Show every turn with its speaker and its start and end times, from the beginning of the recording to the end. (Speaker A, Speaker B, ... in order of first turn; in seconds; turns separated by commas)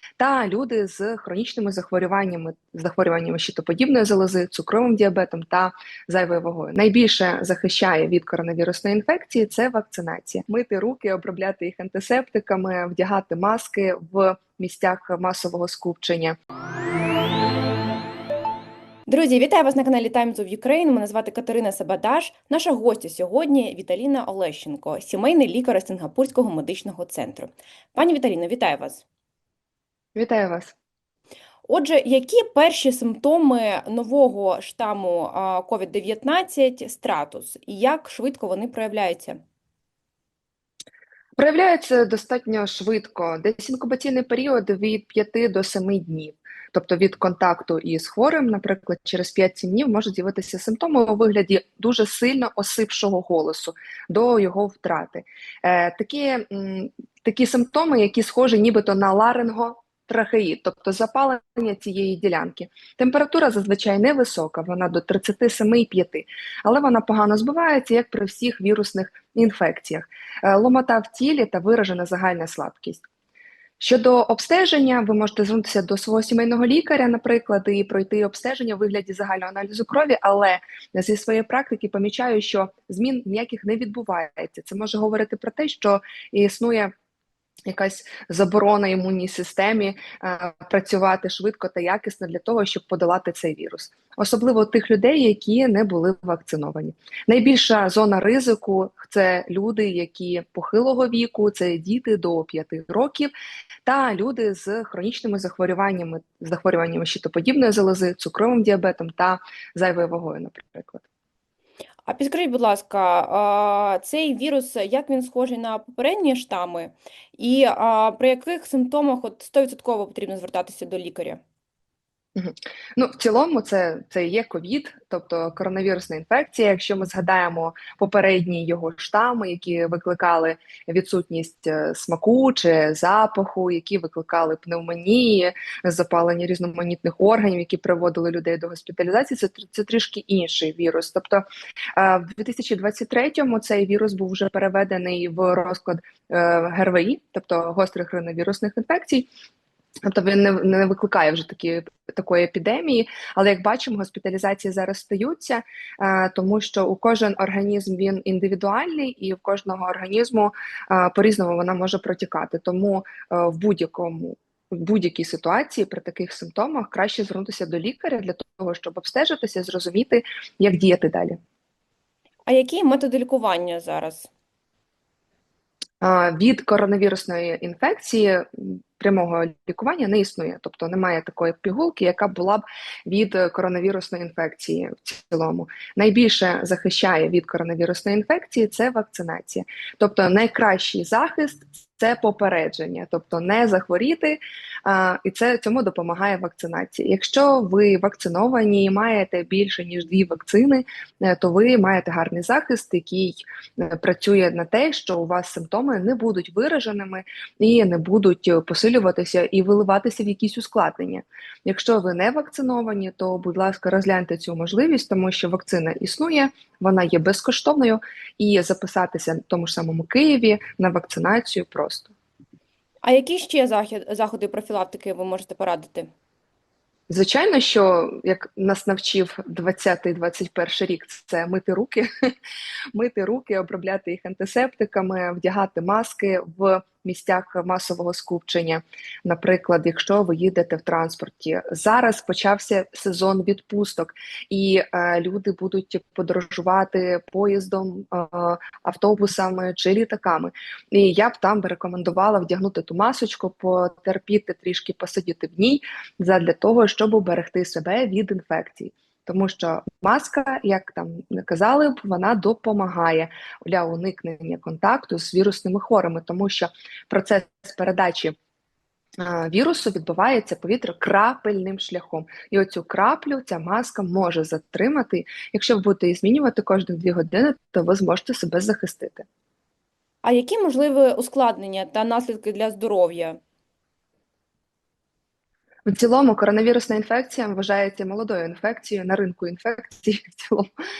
Speaker A: 0.2-16.4, Speaker B: 19.1-29.0, Speaker A: 30.1-30.7, Speaker B: 31.7-39.4, Speaker A: 41.4-73.0, Speaker A: 73.8-86.9, Speaker A: 87.7-103.3, Speaker A: 103.8-111.0, Speaker B: 112.0-121.4, Speaker A: 122.3-149.3, Speaker A: 150.0-171.4, Speaker B: 172.5-174.3, Speaker A: 176.0-222.1, Speaker B: 223.0-226.1, Speaker A: 227.1-232.1, Speaker A: 232.9-268.4, Speaker A: 269.2-279.2, Speaker B: 280.2-283.4, Speaker A: 285.9-290.7